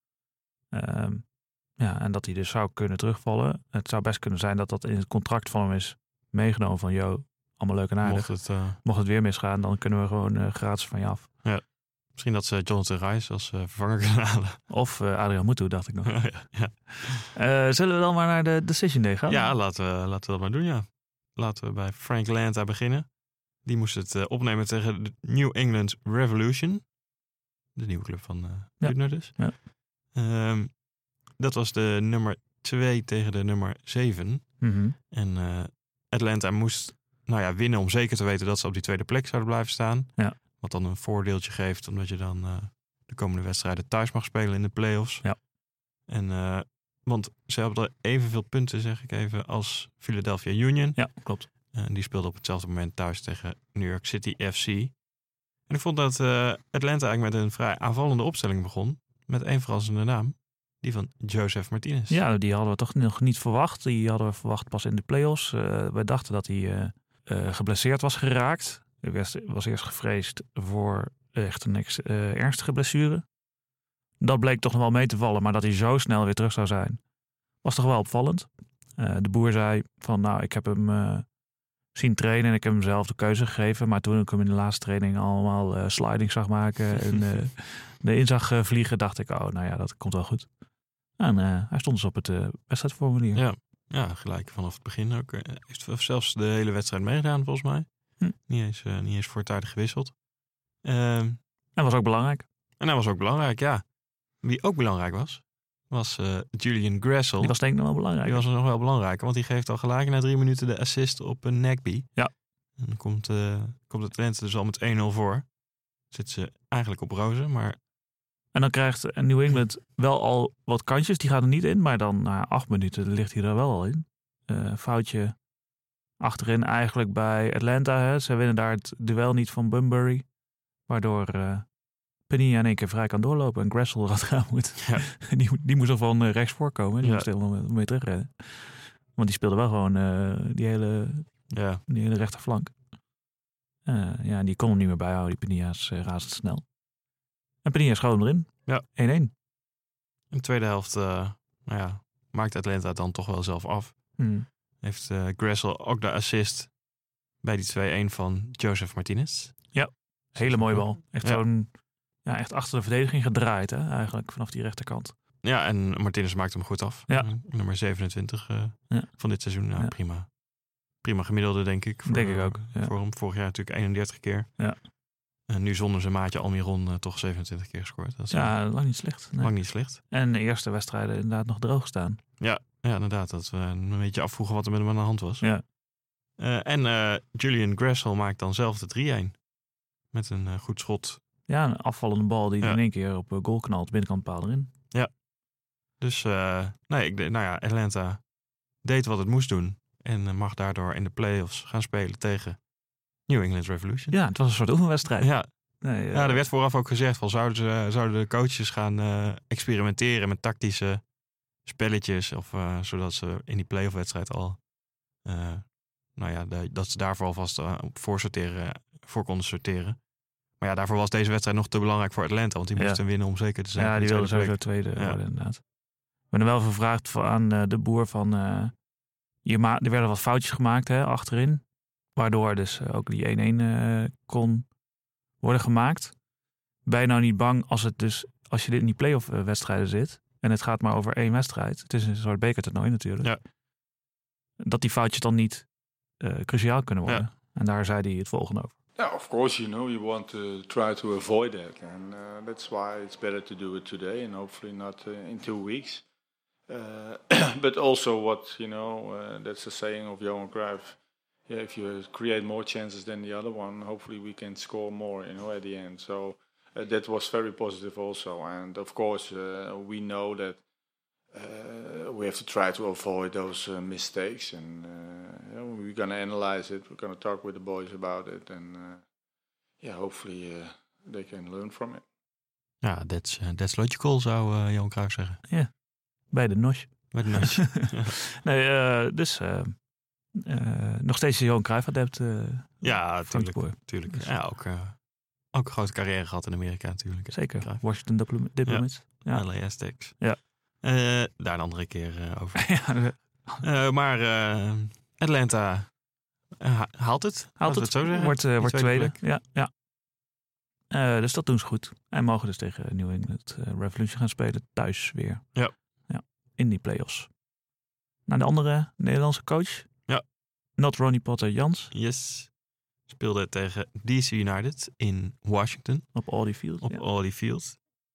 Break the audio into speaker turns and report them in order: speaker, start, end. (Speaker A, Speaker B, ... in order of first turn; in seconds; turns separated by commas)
Speaker A: 0.7-11.3, Speaker B: 8.0-8.8, Speaker B: 11.4-14.6, Speaker A: 14.7-16.8, Speaker B: 16.0-17.3, Speaker A: 17.3-19.4, Speaker B: 19.3-26.9, Speaker B: 27.8-30.8, Speaker A: 28.8-29.6, Speaker B: 31.4-45.4, Speaker A: 34.6-35.0, Speaker B: 46.1-55.0, Speaker A: 51.0-51.5, Speaker B: 55.7-62.2, Speaker A: 62.1-73.3, Speaker A: 74.2-77.0, Speaker A: 77.6-81.3, Speaker A: 81.9-90.5, Speaker B: 87.0-87.2, Speaker A: 91.2-93.4, Speaker B: 93.3-100.2, Speaker B: 100.8-101.4, Speaker A: 101.8-102.5, Speaker B: 102.8-103.9, Speaker B: 104.4-112.2, Speaker A: 107.4-108.4, Speaker B: 112.8-115.5, Speaker B: 116.1-117.8, Speaker A: 118.5-125.4, Speaker A: 126.2-130.3, Speaker A: 130.9-131.7, Speaker A: 132.3-142.7, Speaker B: 134.8-135.1, Speaker B: 137.0-137.3, Speaker B: 141.5-141.8, Speaker A: 143.9-146.6, Speaker A: 147.6-149.3, Speaker B: 150.3-154.2, Speaker A: 154.2-154.5, Speaker B: 154.8-156.8, Speaker B: 157.4-159.7, Speaker A: 159.7-165.2, Speaker B: 160.4-161.4, Speaker B: 165.4-170.3, Speaker A: 168.9-169.9, Speaker B: 171.0-174.5, Speaker A: 172.1-172.9, Speaker B: 175.5-178.8, Speaker A: 178.3-182.2, Speaker B: 179.4-180.0, Speaker B: 182.4-185.5, Speaker B: 186.4-189.4, Speaker B: 190.1-191.2, Speaker A: 191.5-194.7, Speaker B: 196.0-198.2, Speaker B: 198.8-202.6, Speaker B: 203.3-204.2, Speaker A: 204.1-206.4, Speaker B: 205.2-211.1, Speaker B: 211.7-220.0, Speaker B: 220.6-225.2, Speaker A: 222.8-223.0, Speaker A: 223.7-225.6, Speaker A: 226.3-228.7, Speaker A: 229.4-231.6, Speaker A: 232.2-234.7, Speaker A: 235.4-236.2, Speaker A: 236.8-243.3, Speaker A: 244.6-245.7, Speaker A: 246.2-248.7, Speaker C: 249.0-256.0, Speaker C: 256.7-270.6, Speaker C: 271.3-279.0, Speaker C: 279.8-282.0, Speaker B: 282.8-285.4, Speaker A: 285.5-285.7, Speaker A: 286.3-289.8, Speaker B: 287.1-288.2, Speaker A: 290.3-294.3, Speaker B: 292.8-295.0, Speaker B: 295.5-303.1, Speaker A: 297.3-300.4, Speaker A: 302.6-303.6, Speaker B: 303.6-305.9, Speaker B: 306.6-309.2, Speaker A: 307.6-309.7, Speaker A: 310.9-315.5, Speaker A: 316.1-317.3, Speaker A: 318.3-319.9, Speaker A: 320.8-321.9, Speaker B: 321.9-322.5, Speaker B: 323.1-326.3, Speaker A: 326.1-327.0, Speaker B: 326.8-327.8